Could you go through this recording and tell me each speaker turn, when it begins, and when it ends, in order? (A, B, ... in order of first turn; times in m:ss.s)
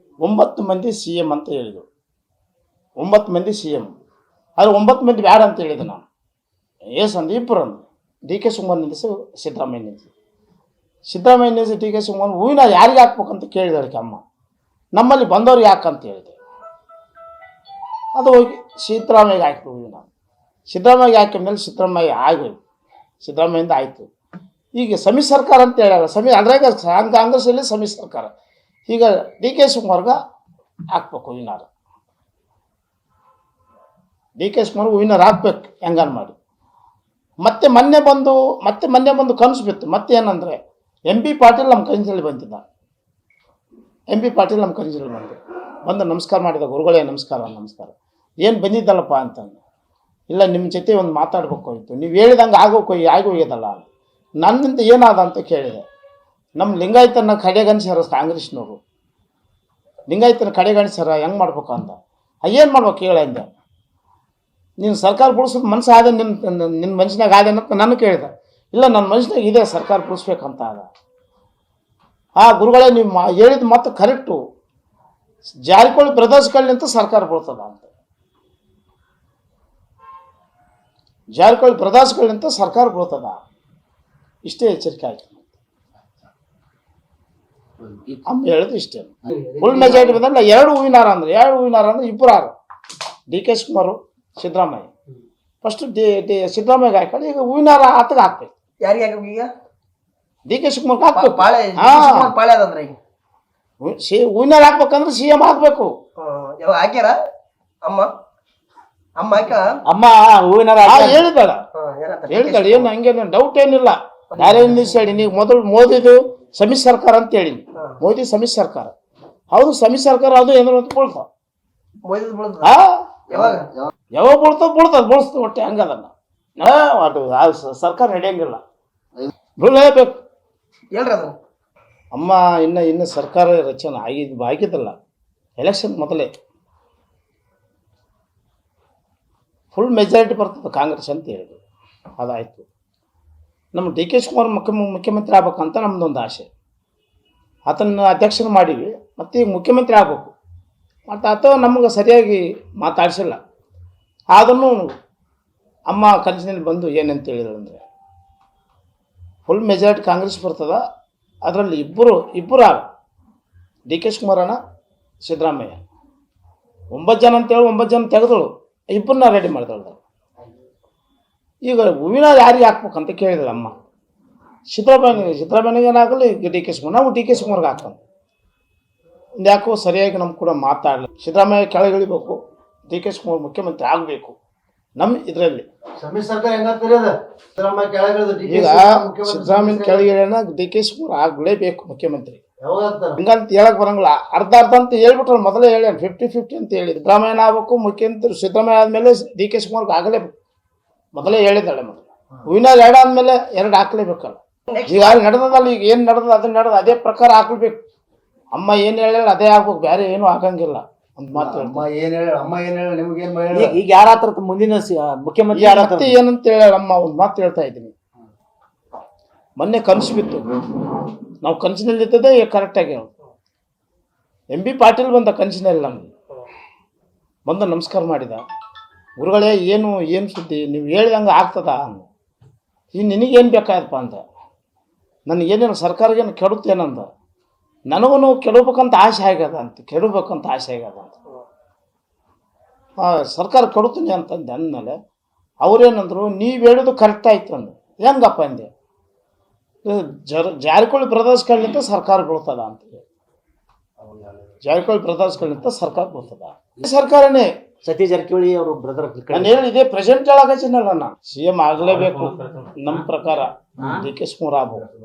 0:00.2-0:01.9 A
0:03.0-0:03.9 A
0:04.6-0:06.1 A
0:06.9-0:10.1 A
0:11.1-0:14.2 A
0:15.0-0:16.4 A
0:18.2-0:20.1 A
0:20.7-0:22.6 A
0:23.2-0:24.1 A
0:24.8-0:28.3 A
0:28.9-0:30.2 A
0:30.9-0:31.7 A
0:34.4-0:36.4 A
0:37.4-0:42.6 A
0:44.1-0:49.6 A
0:50.3-0:53.9 A
0:54.4-0:55.8 A
0:56.6-0:58.8 A
1:00.1-1:03.5 A
1:04.8-1:10.9 A
1:12.4-1:14.4 A
1:15.6-1:17.9 A
1:21.4-1:23.4 A
1:24.4-1:25.5 A
1:28.2-1:32.5 A
1:33.3-1:34.9 A
1:35.6-1:38.5 A
1:38.8-1:39.5 B
1:40.5-1:42.3 A
1:41.1-1:43.0 B
1:43.8-1:45.9 A
1:46.2-1:47.2 B
1:47.8-1:48.1 B
1:49.2-1:49.7 B
1:49.9-1:51.3 C
1:50.8-1:51.6 A
1:51.7-1:52.9 B
1:52.3-1:58.9 A
1:54.3-1:54.6 B
1:59.5-2:01.3 A
2:02.0-2:02.7 B
2:02.6-2:03.0 A
2:03.3-2:03.7 B
2:04.2-2:08.6 A
2:09.6-2:10.2 A
2:10.9-2:11.4 B
2:12.1-2:15.0 A
2:15.6-2:16.3 A
2:19.7-2:21.6 A
2:22.2-2:22.7 A
2:23.7-2:26.5 A
2:27.7-2:30.3 A
2:31.1-2:33.4 A
2:34.3-2:34.9 A
2:35.9-2:37.8 A
2:39.5-2:40.8 A
2:41.4-2:42.9 A
2:43.9-2:44.6 A
2:45.2-2:45.8 A
2:46.9-2:50.0 A
2:51.6-2:53.7 A
2:54.7-2:58.0 A
2:59.4-3:04.4 A
3:05.0-3:05.7 A
3:06.0-3:10.1 D
3:08.5-3:12.4 A
3:12.6-3:13.2 D
3:13.2-3:20.3 A
3:21.1-3:27.8 A
3:24.7-3:25.2 B
3:28.5-3:31.9 A
3:31.4-3:33.8 D
3:33.5-3:36.2 C
3:35.5-3:37.9 A
3:39.6-3:40.5 A
3:41.4-3:43.1 A
3:44.5-3:46.1 A
3:47.5-3:48.4 A
3:49.2-3:52.1 A
3:52.9-3:54.2 A
3:55.3-3:57.1 A
3:57.9-4:01.2 A
4:03.0-4:05.0 A
4:05.6-4:08.7 A
4:09.8-4:13.0 A
4:14.6-4:17.5 A
4:17.8-4:19.6 C
4:19.3-4:24.9 A
4:22.0-4:22.3 C